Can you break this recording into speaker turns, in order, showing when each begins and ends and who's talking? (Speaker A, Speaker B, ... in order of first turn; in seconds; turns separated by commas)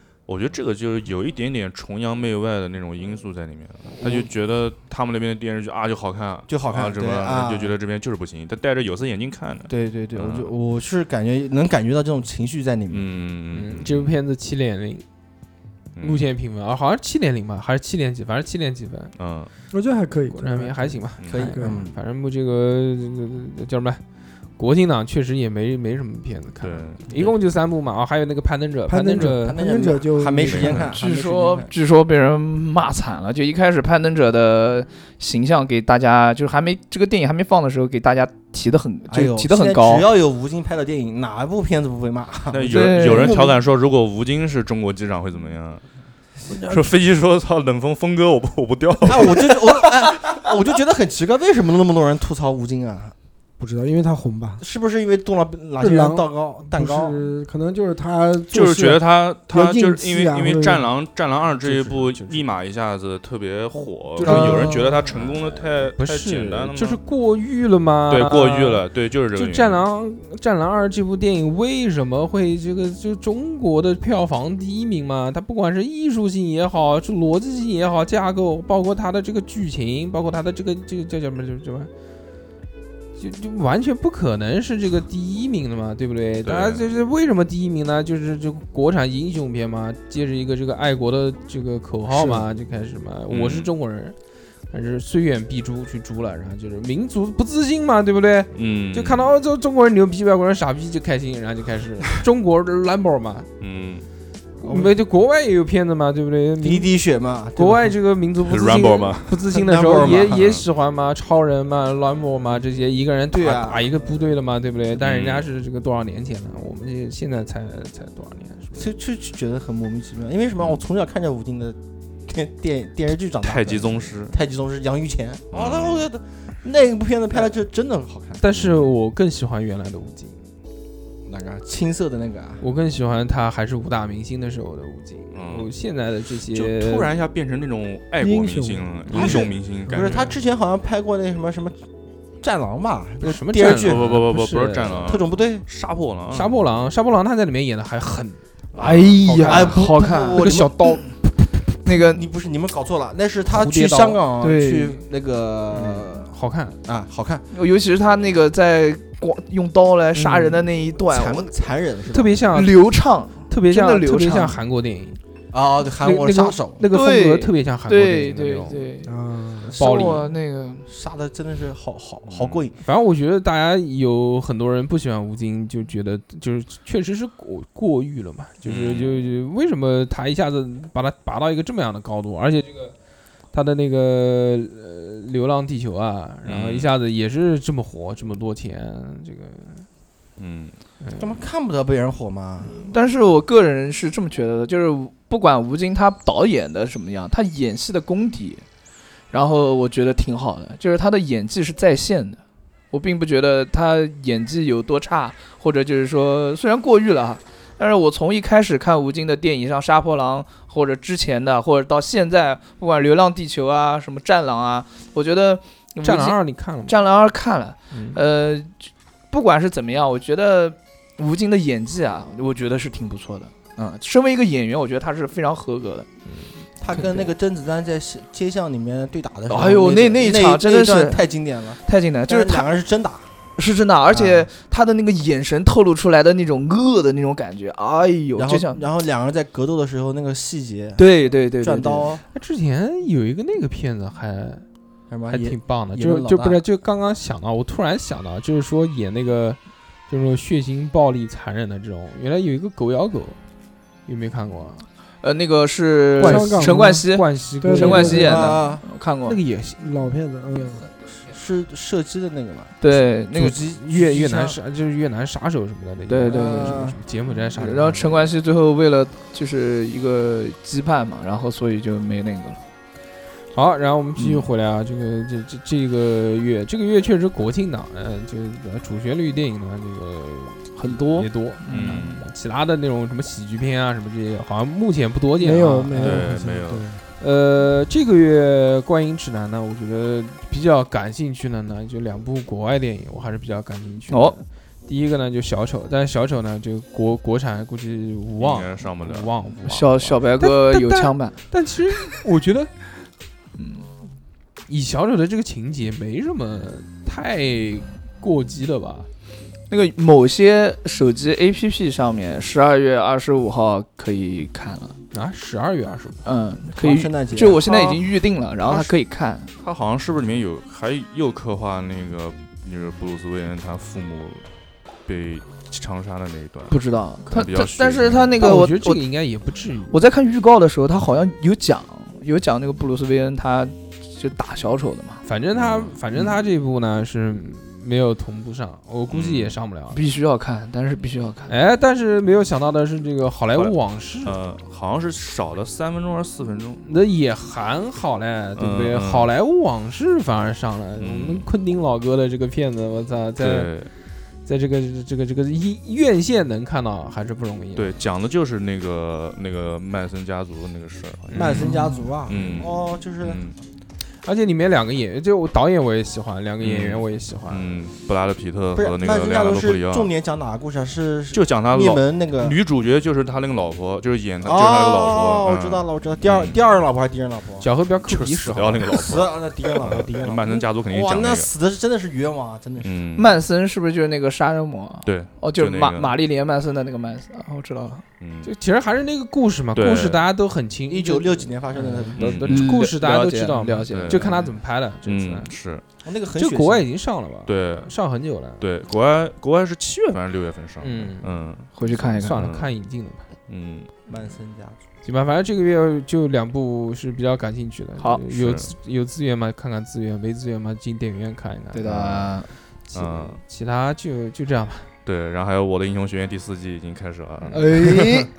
Speaker A: 0.3-10.5, Speaker B: 4.0-4.2, Speaker B: 6.5-7.7, Speaker B: 9.7-13.0, Speaker A: 12.9-14.1, Speaker C: 13.5-15.0, Speaker A: 15.9-16.2, Speaker C: 16.0-19.1, Speaker A: 19.1-19.5, Speaker D: 19.7-21.8, Speaker C: 20.3-24.0, Speaker A: 21.2-21.5, Speaker B: 21.3-21.9, Speaker C: 24.6-29.6, Speaker A: 26.6-27.4, Speaker D: 28.9-30.9, Speaker B: 29.1-31.7, Speaker A: 30.4-31.0, Speaker E: 30.9-40.1, Speaker B: 39.1-43.6, Speaker A: 42.5-45.8, Speaker E: 42.7-43.4, Speaker B: 46.5-46.8, Speaker A: 46.6-50.3, Speaker B: 49.0-53.1, Speaker D: 53.6-54.6, Speaker B: 54.6-57.2, Speaker D: 55.8-60.9, Speaker A: 58.5-67.0, Speaker C: 61.6-62.4, Speaker C: 64.2-68.8, Speaker B: 64.2-64.9, Speaker A: 68.1-69.8, Speaker C: 69.3-81.9, Speaker C: 83.2-94.2, Speaker A: 86.4-86.8, Speaker D: 92.1-92.4, Speaker A: 93.3-93.7, Speaker C: 94.7-103.5, Speaker A: 98.5-99.3, Speaker A: 103.6-104.0, Speaker C: 104.6-106.9, Speaker B: 104.6-104.9, Speaker B: 106.6-107.9, Speaker C: 107.5-118.9, Speaker A: 108.4-109.4, Speaker B: 109.5-110.5, Speaker B: 113.3-114.2, Speaker A: 115.0-115.4, Speaker B: 118.8-128.4, Speaker A: 123.4-124.3, Speaker A: 125.5-126.1, Speaker C: 128.4-130.4, Speaker A: 128.5-128.8, Speaker B: 131.2-132.6, Speaker C: 132.6-137.1, Speaker A: 135.3-135.7, Speaker A: 136.5-140.3, Speaker D: 138.2-139.0, Speaker C: 139.1-140.3, Speaker B: 139.1-141.8, Speaker B: 142.4-144.0, Speaker C: 143.2-145.1, Speaker A: 143.7-146.6, Speaker B: 145.1-145.6, Speaker C: 146.3-151.1, Speaker A: 148.7-149.4, Speaker E: 149.2-151.1, Speaker B: 149.4-150.8, Speaker E: 151.8-152.2, Speaker B: 151.9-156.3, Speaker C: 153.5-154.2, Speaker E: 154.4-155.0, Speaker C: 155.7-156.8, Speaker B: 156.8-157.4, Speaker E: 157.5-161.5, Speaker D: 160.2-160.6, Speaker B: 161.0-162.4, Speaker C: 162.1-162.8, Speaker E: 162.5-164.6, Speaker C: 163.5-165.2, Speaker B: 165.5-166.8, Speaker C: 166.0-168.9, Speaker E: 166.9-169.1, Speaker D: 169.0-169.7, Speaker B: 169.7-170.1, Speaker E: 169.7-170.9, Speaker C: 169.8-170.3, Speaker B: 170.8-172.7, Speaker A: 172.2-172.7, Speaker C: 172.8-182.9, Speaker A: 178.6-179.1, Speaker C: 183.5-189.9, Speaker A: 186.4-186.9, Speaker A: 190.4-190.7, Speaker C: 191.0-191.3, Speaker B: 191.2-192.9, Speaker E: 192.7-198.7, Speaker E: 199.3-226.1, Speaker C: 216.0-217.0, Speaker C: 217.9-218.2, Speaker C: 226.3-226.6, Speaker B: 226.8-233.3, Speaker E: 226.9-227.3, Speaker E: 229.5-231.2, Speaker E: 231.8-232.7, Speaker E: 233.6-238.8, Speaker B: 234.1-234.5, Speaker B: 238.4-242.2, Speaker E: 241.0-242.1, Speaker C: 242.3-244.7, Speaker B: 245.1-246.6, Speaker C: 245.3-253.4, Speaker C: 254.1-254.9, Speaker E: 255.2-259.4, Speaker C: 256.2-258.5, Speaker D: 256.2-257.0, Speaker D: 257.6-258.4, Speaker B: 258.1-258.8, Speaker C: 259.2-259.9, Speaker D: 259.8-260.9, Speaker B: 261.1-262.8, Speaker E: 262.8-263.6, Speaker C: 263.3-268.2, Speaker B: 263.4-264.6, Speaker E: 266.1-266.8, Speaker B: 266.3-267.0, Speaker E: 267.6-272.6, Speaker C: 273.5-286.3, Speaker E: 274.1-274.5, Speaker E: 280.7-282.1, Speaker A: 281.7-282.2, Speaker D: 285.4-287.0, Speaker A: 286.0-286.8, Speaker C: 287.2-302.7, Speaker E: 294.1-294.4, Speaker A: 298.4-299.3, Speaker E: 299.6-301.4, Speaker E: 303.5-303.9, Speaker C: 304.7-309.1, Speaker E: 309.7-315.0, Speaker C: 315.1-316.2, Speaker E: 316.2-319.5, Speaker B: 316.7-318.0, Speaker A: 319.6-324.4, Speaker A: 325.0-326.8, Speaker E: 326.7-329.0, Speaker A: 327.3-328.6, Speaker C: 328.4-329.9, Speaker E: 329.9-335.2, Speaker C: 335.2-340.0, Speaker A: 335.5-336.0, Speaker A: 339.1-339.6, Speaker E: 339.9-341.5, Speaker C: 341.5-344.4, Speaker A: 343.5-346.8, Speaker C: 346.8-353.7, Speaker A: 348.6-349.3, Speaker A: 351.0-351.4, Speaker A: 353.4-353.9, Speaker C: 354.4-357.9, Speaker A: 357.8-361.7, Speaker C: 361.3-361.9, Speaker B: 361.3-363.4, Speaker A: 362.3-363.6, Speaker C: 364.2-367.8, Speaker A: 366.6-370.1, Speaker B: 368.7-372.6, Speaker A: 371.3-376.6, Speaker B: 374.4-377.7, Speaker C: 377.6-379.1, Speaker A: 378.0-381.5, Speaker B: 378.8-383.0, Speaker C: 379.8-380.2, Speaker A: 382.8-383.3, Speaker E: 383.1-388.0, Speaker A: 385.0-386.1, Speaker A: 388.2-388.5, Speaker C: 388.4-391.5, Speaker A: 389.7-390.2, Speaker B: 390.9-392.2, Speaker E: 391.7-394.5, Speaker C: 392.1-395.5, Speaker A: 392.2-392.7, Speaker A: 393.9-394.5, Speaker A: 395.0-395.8, Speaker B: 396.0-396.8, Speaker C: 396.4-398.6, Speaker A: 397.5-397.9, Speaker A: 398.6-402.7, Speaker C: 400.8-401.3, Speaker E: 401.8-402.5, Speaker C: 401.9-403.3, Speaker A: 403.5-403.9, Speaker B: 404.1-404.8, Speaker C: 405.0-412.1, Speaker A: 408.3-408.7, Speaker E: 411.7-412.5, Speaker A: 411.9-412.4, Speaker A: 412.9-413.4, Speaker C: 412.9-414.9, Speaker A: 415.0-418.0, Speaker B: 417.6-418.3, Speaker D: 417.7-418.3